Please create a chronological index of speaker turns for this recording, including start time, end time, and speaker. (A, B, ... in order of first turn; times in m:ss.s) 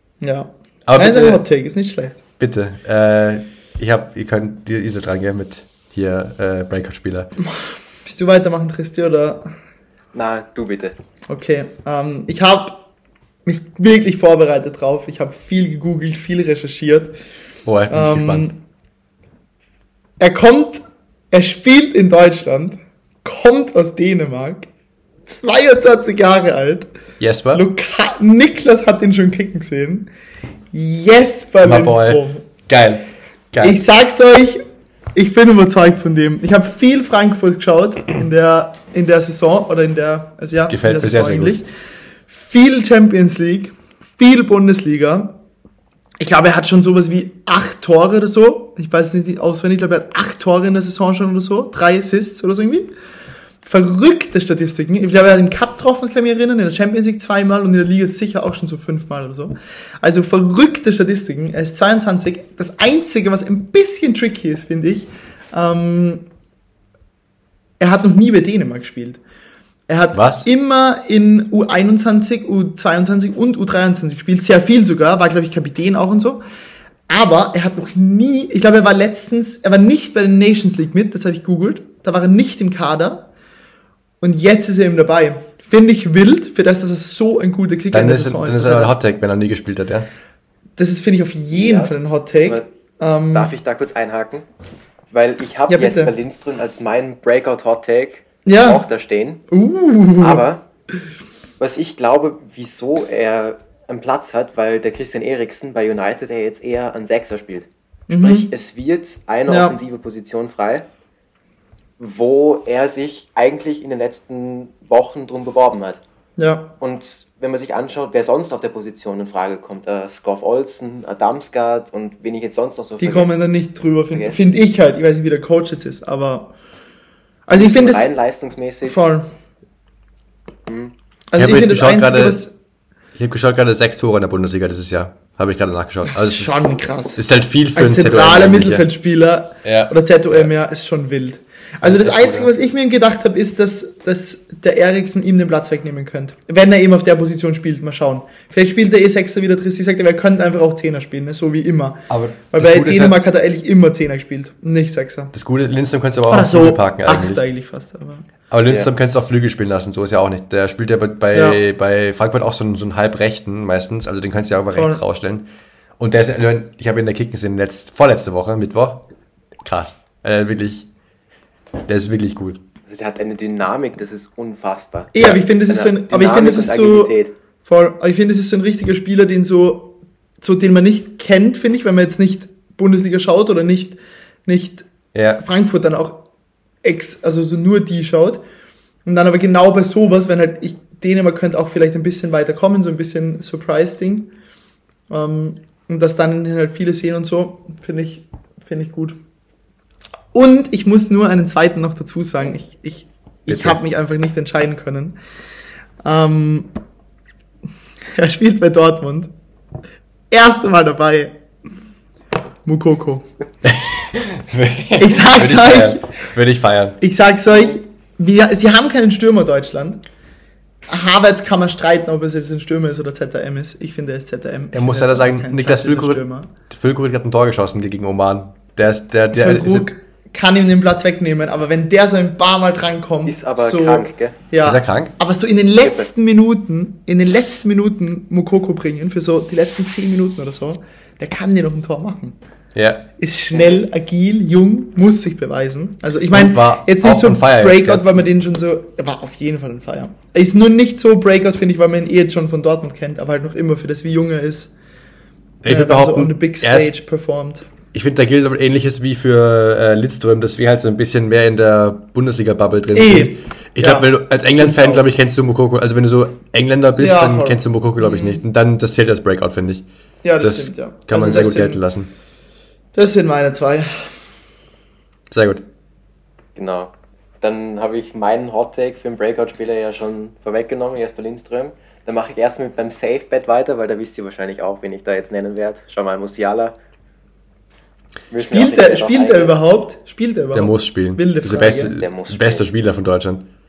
0:00.2-0:02.2 A
0:00.9-0:01.4 B
0:02.4-0:07.3 B
0:07.5-0:09.5 A
0:10.1-0:10.9 C
0:11.3-0:12.8 A
0:13.4-0:17.2 A
0:17.6-0:18.5 B
0:17.9-0:18.6 A
0:20.2-0:24.7 A
0:25.3-0:26.9 A
0:27.2-0:27.6 B
0:27.5-0:30.1 A
0:30.7-0:32.4 A
0:31.6-0:33.8 B
0:33.6-0:34.6 A
0:35.1-0:41.7 A
0:40.7-0:41.6 B
0:42.3-0:45.3 A
0:46.2-0:52.9 A
0:53.6-1:06.2 A
1:07.8-1:09.2 A
1:09.9-1:16.4 A
1:10.1-1:10.4 B
1:17.1-1:23.3 A
1:24.2-1:28.9 A
1:27.9-1:30.1 B
1:30.8-1:33.5 A
1:31.5-1:31.9 C
1:33.3-1:34.4 C
1:35.1-1:39.4 C
1:35.7-1:36.1 A
1:38.4-1:38.8 A
1:39.5-1:40.4 A
1:40.2-1:40.6 C
1:41.6-1:50.8 C
1:48.1-1:48.5 A
1:49.5-1:49.8 A
1:52.0-1:56.0 C
1:56.4-1:56.7 A
1:56.8-2:03.3 C
2:03.0-2:06.5 A
2:04.1-2:04.4 C
2:07.5-2:08.1 A
2:07.5-2:09.0 C
2:08.9-2:09.3 A
2:10.7-2:10.9 C
2:11.3-2:12.5 A
2:11.4-2:12.4 B
2:13.2-2:16.5 B
2:16.0-2:17.2 A
2:17.2-2:18.8 B
2:17.7-2:35.3 A
2:19.6-2:20.5 B
2:21.8-2:22.5 B
2:32.1-2:33.2 B
2:35.3-2:37.4 B
2:36.3-2:38.2 A
2:38.5-2:45.5 B
2:41.3-2:41.6 A
2:44.7-2:45.0 A
2:46.0-2:49.0 B
2:49.6-2:50.9 B
2:51.9-2:52.6 B
2:52.9-2:57.3 C
2:55.1-2:57.1 A
2:57.6-3:04.9 A
3:05.1-3:05.4 B
3:05.4-3:06.2 A
3:06.8-3:08.4 A
3:09.0-3:14.3 A
3:15.1-3:19.2 A
3:20.3-3:25.2 A
3:23.5-3:23.8 B
3:26.0-3:26.7 A
3:28.1-3:29.3 A
3:30.3-3:31.3 A
3:32.6-3:33.3 A
3:33.6-3:37.0 B
3:35.0-3:36.1 A
3:37.0-3:40.0 A
3:40.9-3:46.5 A
3:44.7-3:49.9 B
3:49.3-4:02.4 A
3:53.2-3:54.4 C
3:54.6-3:55.1 B
3:55.8-3:56.1 C
4:02.7-4:03.0 B
4:03.2-4:14.7 A
4:06.3-4:08.2 B
4:15.6-4:16.9 B
4:15.7-4:17.6 A
4:17.9-4:29.8 B
4:22.9-4:25.0 A
4:27.0-4:28.4 A
4:30.2-4:31.8 A
4:30.4-4:32.1 B
4:32.9-4:34.1 A
4:35.3-4:35.6 B
4:36.6-4:46.8 C
4:48.3-4:49.6 C
4:48.5-4:52.0 A
4:50.5-4:53.4 B
4:52.0-4:52.7 C